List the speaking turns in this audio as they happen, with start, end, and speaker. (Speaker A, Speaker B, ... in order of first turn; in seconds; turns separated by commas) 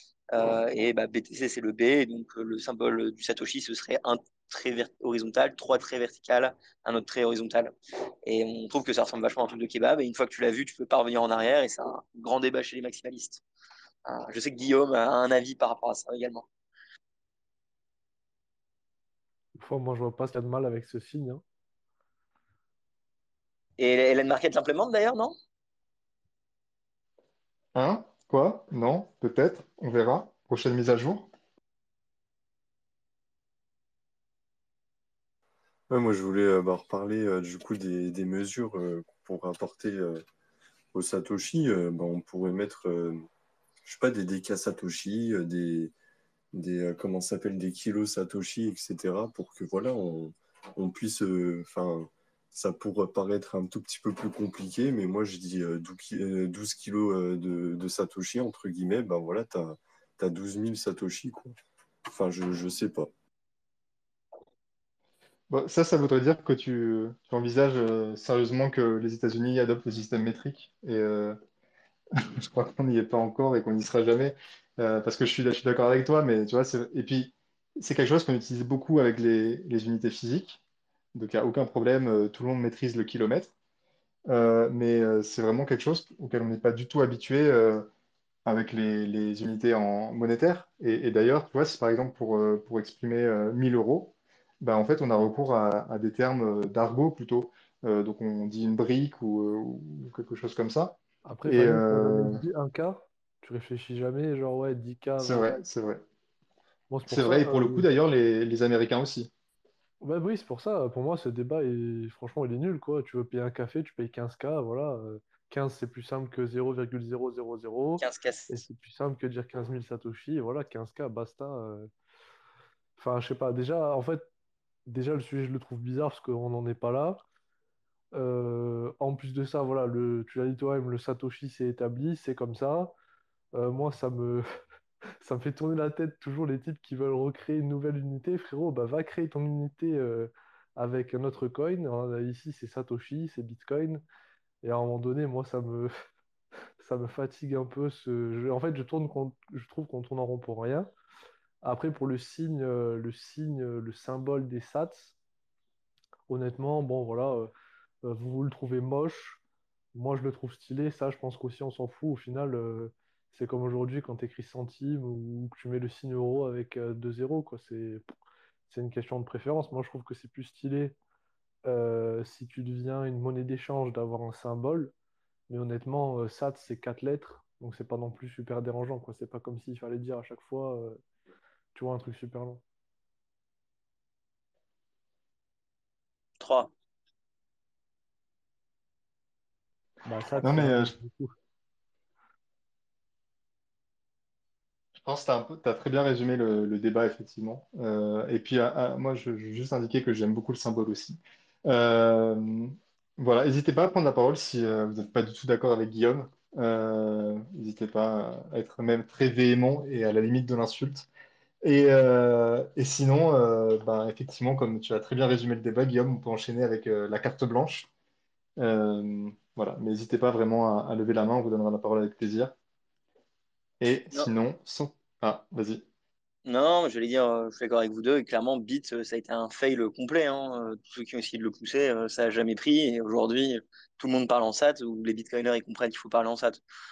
Speaker A: 0.3-7.7, Speaker A: 8.2-13.4, Speaker A: 14.1-16.4, Speaker B: 19.6-21.4, Speaker A: 23.8-25.3, Speaker C: 27.7-31.3, Speaker D: 35.9-40.2, Speaker D: 40.9-43.3, Speaker D: 43.8-45.9, Speaker D: 46.5-61.5, Speaker D: 62.1-63.1, Speaker C: 65.5-71.4, Speaker C: 72.4-80.6, Speaker C: 81.1-83.5, Speaker C: 84.3-87.9, Speaker C: 88.5-102.4, Speaker B: 101.2-105.6, Speaker C: 105.2-106.0, Speaker B: 106.9-107.9, Speaker C: 107.1-109.3, Speaker B: 110.0-121.9, Speaker A: 118.0-118.6, Speaker B: 123.0-124.2, Speaker B: 124.9-127.2, Speaker B: 128.1-132.9, Speaker B: 133.5-134.4, Speaker B: 135.2-144.0, Speaker B: 144.6-145.9, Speaker B: 146.8-150.9, Speaker B: 151.6-155.1, Speaker B: 156.3-157.5, Speaker B: 158.0-159.4, Speaker B: 159.9-168.1, Speaker B: 168.7-170.9, Speaker B: 171.7-174.9, Speaker B: 175.5-181.0, Speaker B: 181.7-182.6, Speaker A: 186.4-186.7, Speaker B: 190.0-191.3, Speaker C: 190.4-190.9, Speaker C: 195.0-211.1, Speaker C: 211.6-217.9, Speaker C: 218.6-222.5, Speaker C: 223.8-225.8, Speaker A: 226.4-236.6